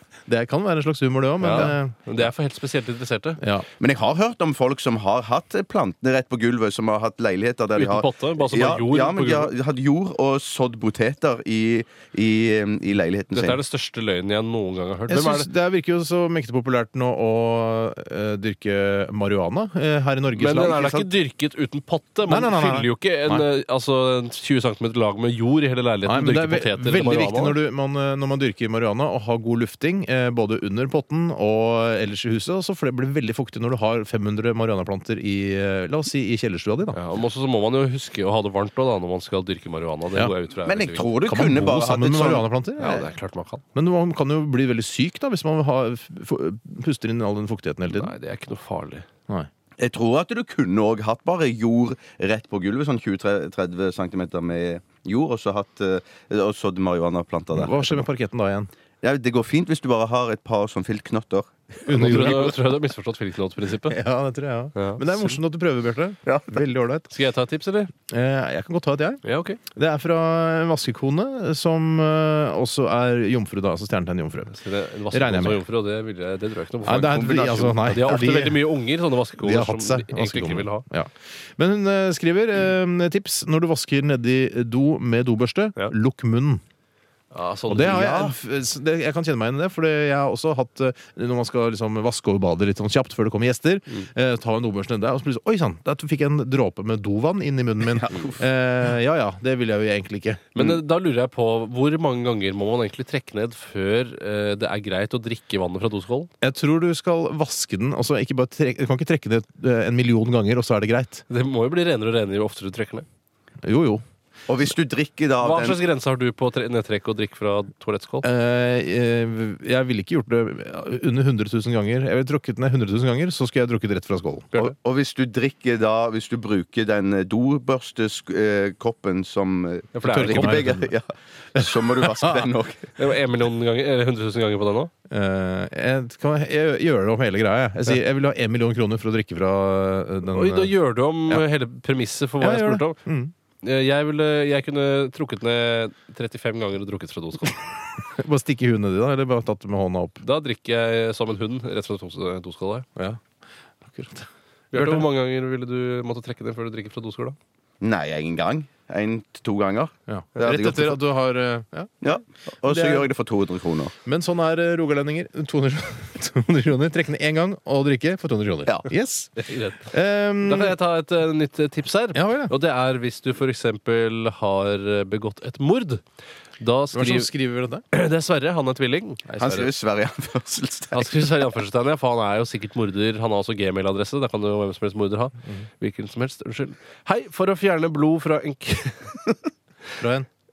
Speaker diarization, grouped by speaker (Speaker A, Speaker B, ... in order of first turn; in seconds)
Speaker A: 0.2-2.2, 3.4-3.7, 15.1-21.1, 22.2-23.4, 26.1-37.0, 41.2-43.0, 43.7-48.1, 57.5-58.7, 61.8-62.7, 63.8-67.1, 68.0-69.2, 69.7-74.6, 75.1-75.6, 76.8-78.7, 79.4-86.6, 87.7-100.6, 106.4-111.2, 113.6-114.0, 118.2-124.5, 130.0-130.9, 131.6-132.5, 135.1-140.8, 142.4-143.3, 148.0-150.2, 152.9-153.2, 153.8-155.1, 160.1-162.1, 162.6-163.1, 164.0-170.8, 172.1-172.5, 176.9-177.8, 179.3-179.7, 190.0-190.3
Speaker B: 1.4-3.4, 7.7-9.5, 13.3-15.5, 20.4-27.6, 36.9-41.1, 42.8-43.6, 47.9-49.1, 61.9-64.0, 64.7-65.4, 67.1-67.9, 69.2-69.6, 74.5-80.8, 87.3-88.1, 100.5-106.3, 111.3-113.0, 115.4-118.2, 129.9-130.7, 132.9-134.9, 140.3-143.0, 143.6-147.6, 150.2-152.9, 154.7-157.4, 169.4-176.0, 176.6-177.3, 177.9-179.7, 180.9-189.3
Speaker C: 3.8-13.6, 40.6-42.5, 49.8-58.0, 59.0-61.9, 66.2-66.7, 76.9-78.2, 87.8-88.3, 98.0-98.4, 114.5-115.8, 124.6-132.9, 157.8-161.0, 162.0-163.9, 168.7-168.9, 179.4-181.2